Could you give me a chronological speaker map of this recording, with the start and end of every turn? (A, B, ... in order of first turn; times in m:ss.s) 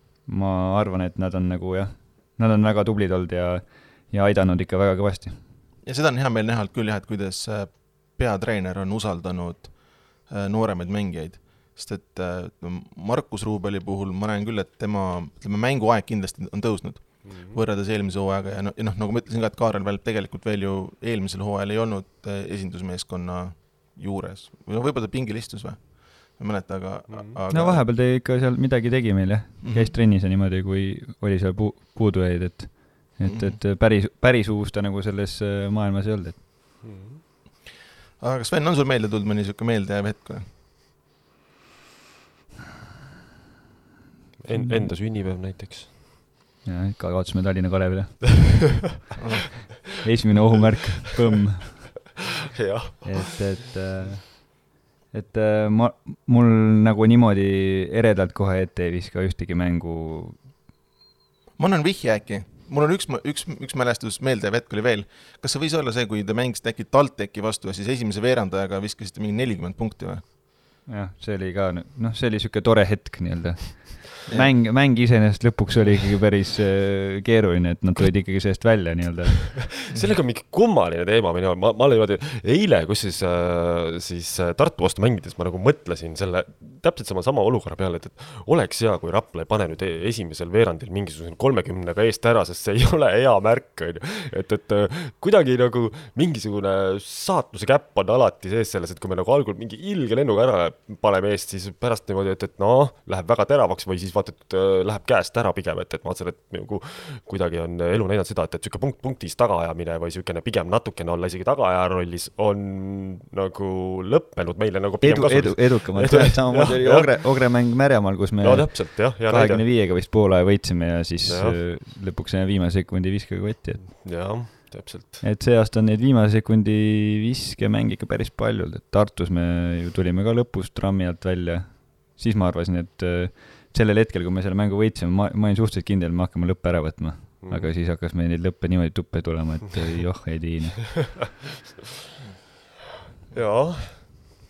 0:00.3-0:05.4 A
0:05.8-0:27.8 B
0:17.2-0:17.6 C
0:27.1-0:27.4 C
0:27.5-0:36.4 A
0:29.6-0:30.0 B
0:33.2-0:33.6 B
0:36.8-0:37.2 C
0:38.2-0:40.4 B
0:44.4-0:45.9 C
0:44.5-0:44.9 A
0:46.6-0:48.8 A
0:49.2-0:49.5 B
0:50.0-0:52.0 A
0:52.5-0:53.5 C
0:53.0-1:00.4 A
1:01.6-1:10.3 B
1:10.8-1:19.7 A
1:14.3-1:14.5 B
1:19.6-1:57.6 C
1:19.9-1:20.1 B
1:55.0-2:04.5 A
1:58.4-1:59.6 C
2:01.2-2:01.6 C
2:03.8-2:05.2 C
2:05.2-2:21.2 A
2:17.4-2:17.7 C
2:23.3-2:24.0 C